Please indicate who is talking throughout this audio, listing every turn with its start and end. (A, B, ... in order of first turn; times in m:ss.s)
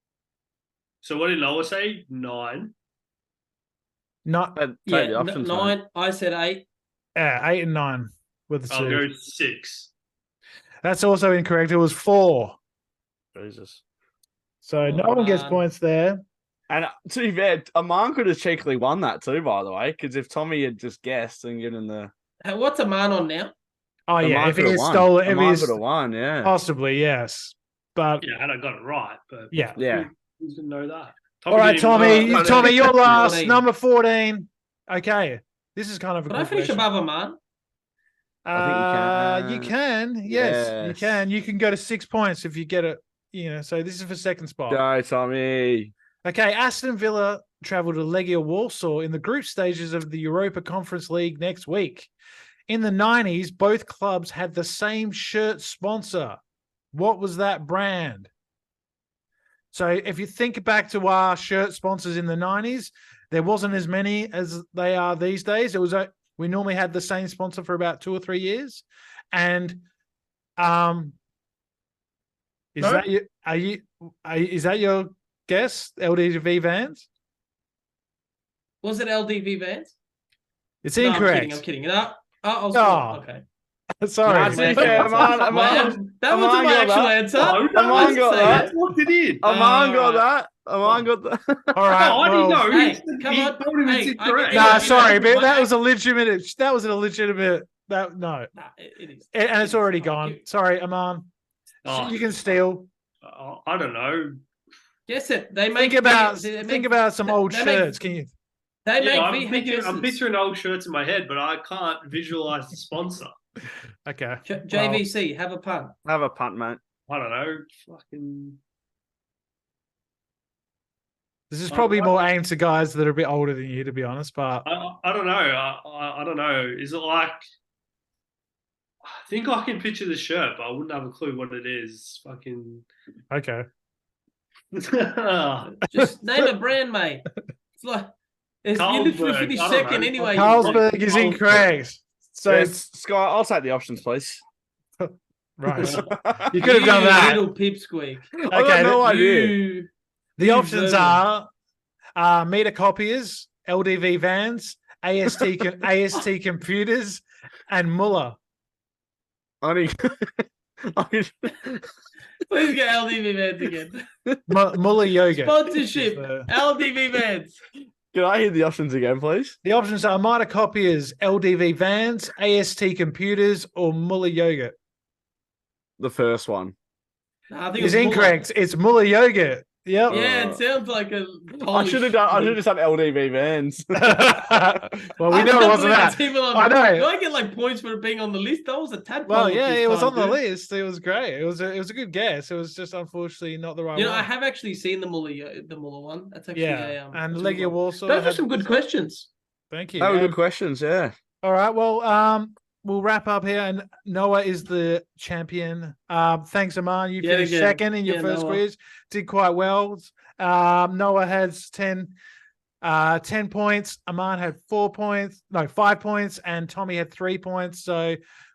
0:01.0-0:02.7 A
0:04.2-0:04.6 B
0:04.6-0:05.8 C
0:04.9-0:06.6 D
0:07.2-0:09.1 B
0:08.7-0:09.9 A
0:10.8-0:12.6 B
0:13.4-0:13.8 C
0:14.6-0:16.2 B
0:14.8-0:15.6 D
0:16.7-0:22.1 C
0:22.4-0:23.5 D
0:24.1-0:25.8 B
0:24.2-0:26.6 C
0:26.4-0:28.2 B
0:28.2-0:33.4 A
0:29.5-0:29.8 B
0:29.8-0:30.1 C
0:31.5-0:36.9 B
0:32.0-0:33.6 D
0:36.3-0:37.4 D
0:38.4-0:44.8 B
0:38.5-0:39.7 C
0:40.3-0:41.2 C
0:44.7-0:45.9 C
0:46.2-0:52.1 B
0:52.7-0:56.4 B
0:56.9-0:58.3 B
0:59.7-1:09.8 B
1:10.6-1:11.2 B
1:12.8-1:17.1 B
1:12.8-1:13.0 A
1:18.8-1:20.0 D
1:20.8-1:21.6 B
1:21.0-1:23.4 D
1:22.7-1:23.2 B
1:24.0-1:25.2 B
1:24.2-1:28.7 C
1:24.4-1:28.7 D
1:24.9-1:26.1 A
1:27.4-1:29.4 A
1:29.4-1:31.8 C
1:29.4-1:30.3 D
1:31.7-1:32.7 B
1:31.9-1:35.1 A
1:32.7-1:35.7 D
1:34.5-1:38.5 B
1:38.5-1:40.4 D
1:39.3-1:41.3 B
1:41.8-1:42.3 A
1:41.9-1:42.9 B
1:43.2-1:44.4 A
1:45.1-1:47.9 D
1:45.7-1:48.3 B
1:48.8-1:50.2 D
1:49.0-1:53.3 A
1:54.1-1:55.1 B
1:54.4-1:56.0 D
1:56.0-1:56.8 C
1:57.1-1:58.6 A
2:01.5-2:04.7 B
2:01.7-2:02.2 A
2:04.6-2:07.4 A
2:09.0-2:12.9 A
2:13.3-2:13.7 B
2:14.7-2:15.7 A
2:15.7-2:17.3 D
2:16.0-2:16.5 B
2:17.8-2:21.3 D
2:18.8-2:21.4 A
2:20.3-2:22.8 B
2:22.5-2:24.4 C
2:25.0-2:26.0 B
2:25.8-2:26.1 A
2:25.8-2:26.5 C
2:26.5-2:27.4 B
2:26.6-2:28.3 D
2:28.4-2:29.6 C
2:28.5-2:29.0 B
2:29.0-2:29.9 D
2:30.4-2:31.5 B
2:30.4-2:31.2 D
2:32.2-2:38.4 B
2:39.6-2:41.9 C
2:42.5-2:44.0 D
2:44.5-2:46.5 B
2:45.4-2:47.6 D
2:48.1-2:49.6 C
2:49.6-2:54.8 B
2:56.0-2:56.8 C
2:57.5-2:58.4 D
2:57.8-3:00.2 B
3:00.1-3:02.6 D
3:00.1-3:00.6 C
3:01.6-3:04.4 C
3:04.0-3:07.0 B
3:05.3-3:10.4 D
3:09.3-3:14.3 B
3:14.0-3:19.3 D
3:16.6-3:18.6 B
3:19.7-3:20.4 B
3:20.0-3:21.2 C
3:21.4-3:32.1 B
3:27.2-3:28.6 D
3:32.8-3:38.2 B